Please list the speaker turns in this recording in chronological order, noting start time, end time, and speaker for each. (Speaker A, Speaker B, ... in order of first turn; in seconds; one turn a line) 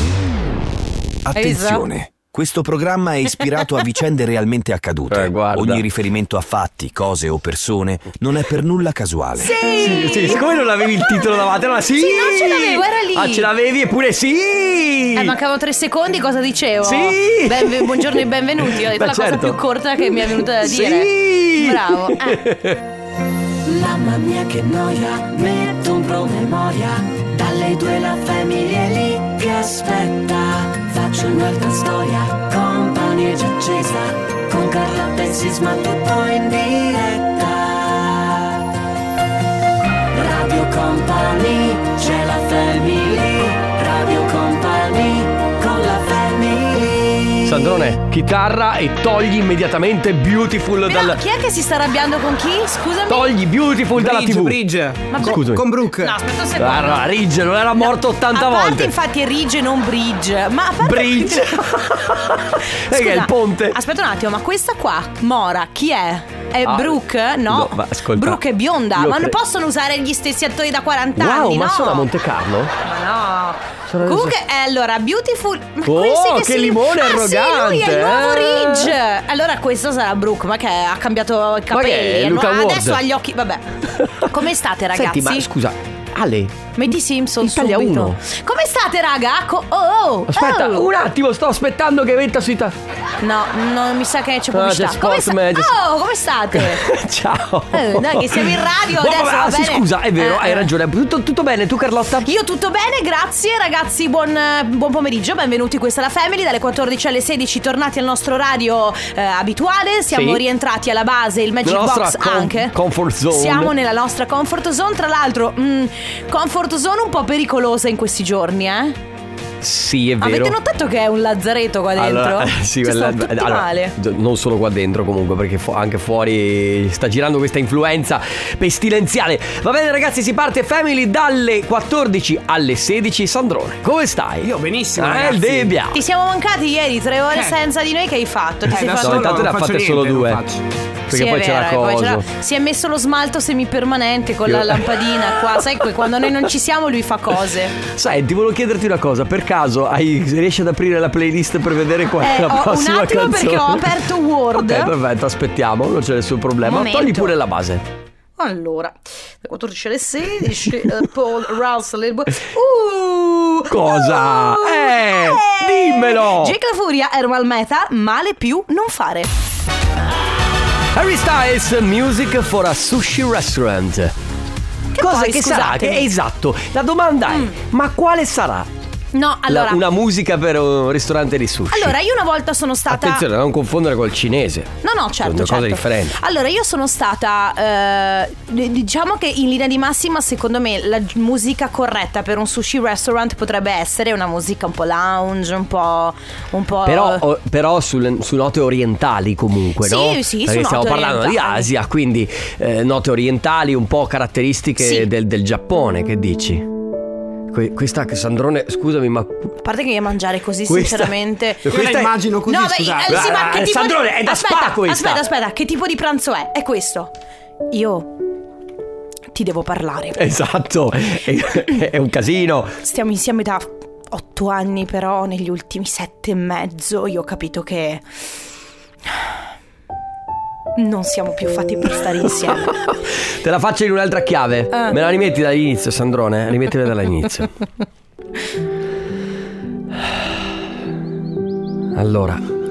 Speaker A: 1.2-9.6
Speaker B: 1.3-1.9
Speaker C: 5.1-5.8
Speaker B: 9.4-10.4
Speaker C: 9.8-15.4
Speaker B: 11.9-13.5
Speaker B: 15.1-22.4
Speaker C: 16.8-22.8
Speaker D: 23.6-38.6
Speaker D: 40.1-47.5
Speaker C: 47.4-51.2
Speaker B: 50.9-53.3
Speaker C: 53.1-54.6
Speaker E: 53.9-56.2
Speaker B: 55.1-57.0
Speaker C: 55.1-55.7
Speaker C: 56.6-58.9
Speaker B: 58.3-61.7
Speaker C: 60.8-63.8
Speaker B: 62.7-72.1
Speaker C: 66.6-68.4
Speaker C: 68.9-69.3
Speaker C: 71.2-72.7
Speaker B: 72.8-85.5
Speaker C: 73.9-74.3
Speaker C: 75.8-79.0
Speaker C: 81.7-83.0
Speaker C: 84.9-86.7
Speaker B: 86.8-90.9
Speaker C: 87.4-88.2
Speaker C: 90.3-92.8
Speaker B: 93.2-96.8
Speaker C: 94.5-95.8
Speaker C: 96.5-102.3
Speaker B: 97.7-100.7
Speaker B: 102.2-112.7
Speaker C: 110.1-110.4
Speaker C: 111.6-113.7
Speaker B: 113.3-119.0
Speaker C: 119.6-120.6
Speaker B: 120.2-123.9
Speaker C: 122.0-136.0
Speaker E: 134.4-135.8
Speaker B: 135.9-139.3
Speaker E: 137.3-137.6
Speaker E: 138.7-140.6
Speaker C: 138.9-140.4
Speaker C: 141.1-142.2
Speaker B: 141.1-147.8
Speaker C: 144.4-145.7
Speaker C: 147.8-154.0
Speaker B: 152.2-154.9
Speaker C: 154.5-157.8
Speaker B: 156.6-157.3
Speaker B: 158.4-169.3
Speaker C: 163.7-166.5
Speaker C: 170.9-174.1
Speaker B: 174.9-176.1
Speaker C: 174.9-178.7
Speaker B: 177.3-177.5
Speaker B: 179.1-179.8
Speaker C: 179.4-181.9
Speaker B: 181.7-183.2
Speaker C: 182.9-186.2
Speaker B: 184.8-197.2
Speaker C: 196.8-206.7
Speaker B: 199.8-201.7
Speaker B: 204.8-205.1
Speaker C: 207.5-209.5
Speaker B: 209.6-211.7
Speaker C: 210.7-212.2
Speaker E: 211.7-213.2
Speaker B: 212.4-217.1
Speaker C: 213.1-215.2
Speaker B: 217.7-218.1
Speaker B: 219.3-220.2
Speaker C: 220.1-222.8
Speaker B: 222.8-228.0
Speaker B: 230.8-232.8
Speaker C: 232.5-237.5
Speaker B: 234.7-235.0
Speaker C: 240.0-240.2
Speaker C: 241.9-242.4